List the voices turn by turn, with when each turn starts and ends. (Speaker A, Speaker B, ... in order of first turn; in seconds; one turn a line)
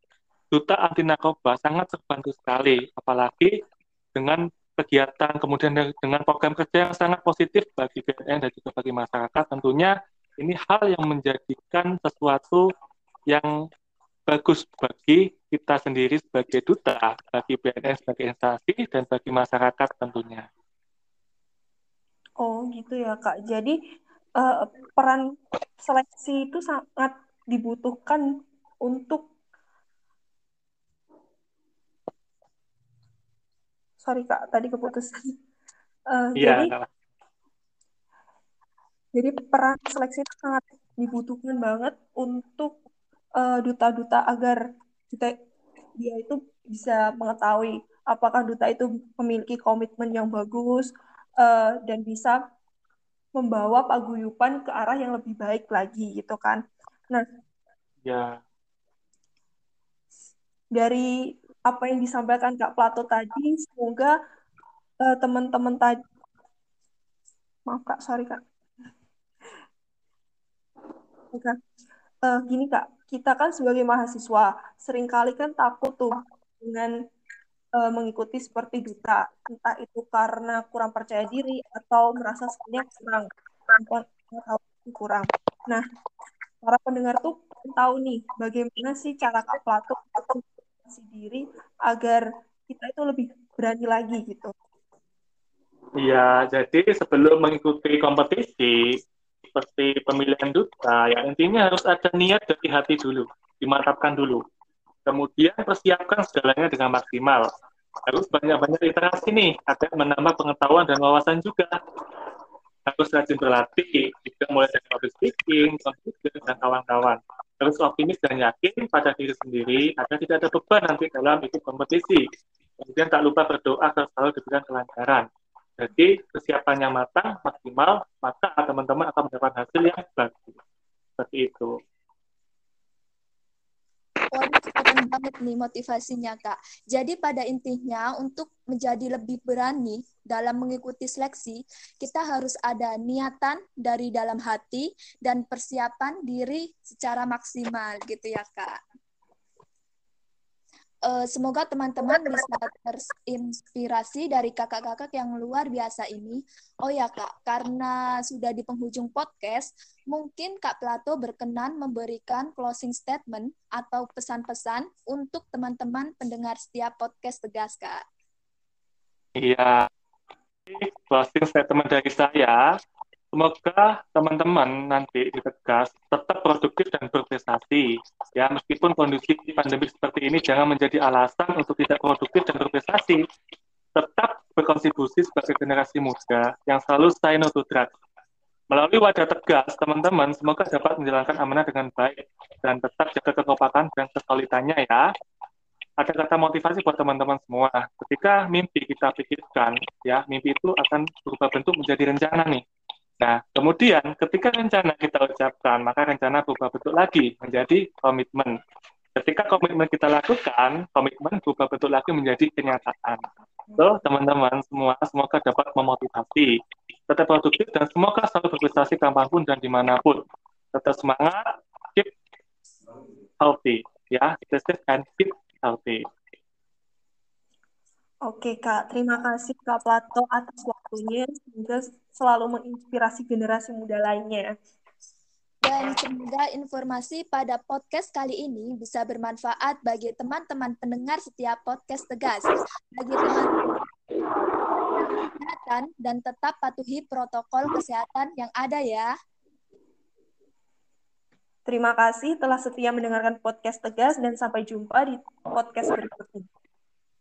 Speaker A: 0.5-3.5
Speaker A: 4.2-12.7
Speaker A: 14.3-20.4
Speaker B: 22.4-23.8
Speaker B: 24.4-25.2
Speaker B: 25.8-28.2
Speaker B: 28.9-29.2
Speaker B: 34.0-35.2
Speaker B: 36.1-36.7
Speaker A: 36.4-36.9
Speaker B: 39.1-42.7
Speaker B: 43.4-44.6
Speaker B: 46.0-50.9
Speaker B: 51.4-52.4
Speaker B: 53.4-57.2
Speaker A: 58.0-58.4
Speaker B: 60.8-61.1
Speaker B: 61.7-64.1
Speaker B: 65.0-66.0
Speaker B: 67.7-68.4
Speaker B: 72.3-76.9
Speaker B: 77.8-85.8
Speaker B: 86.6-94.5
Speaker A: 96.0-98.8
Speaker A: 99.5-104.4
Speaker A: 105.1-107.5
Speaker A: 108.1-111.7
Speaker A: 112.9-122.2
Speaker A: 122.8-125.3
Speaker A: 125.8-130.6
Speaker A: 131.2-131.8
Speaker C: 134.3-148.8
Speaker C: 151.1-168.0
Speaker A: 169.4-169.9
Speaker A: 170.7-172.6
Speaker A: 173.3-183.2
Speaker A: 184.0-187.9
Speaker A: 188.7-195.1
Speaker A: 196.0-202.6
Speaker A: 203.2-208.6
Speaker A: 209.2-213.2
Speaker A: 213.8-216.5
Speaker A: 217.1-220.2
Speaker A: 220.7-221.4
Speaker A: 223.4-226.0
Speaker B: 228.3-234.5
Speaker C: 235.6-243.7
Speaker C: 245.0-249.1
Speaker B: 251.7-256.5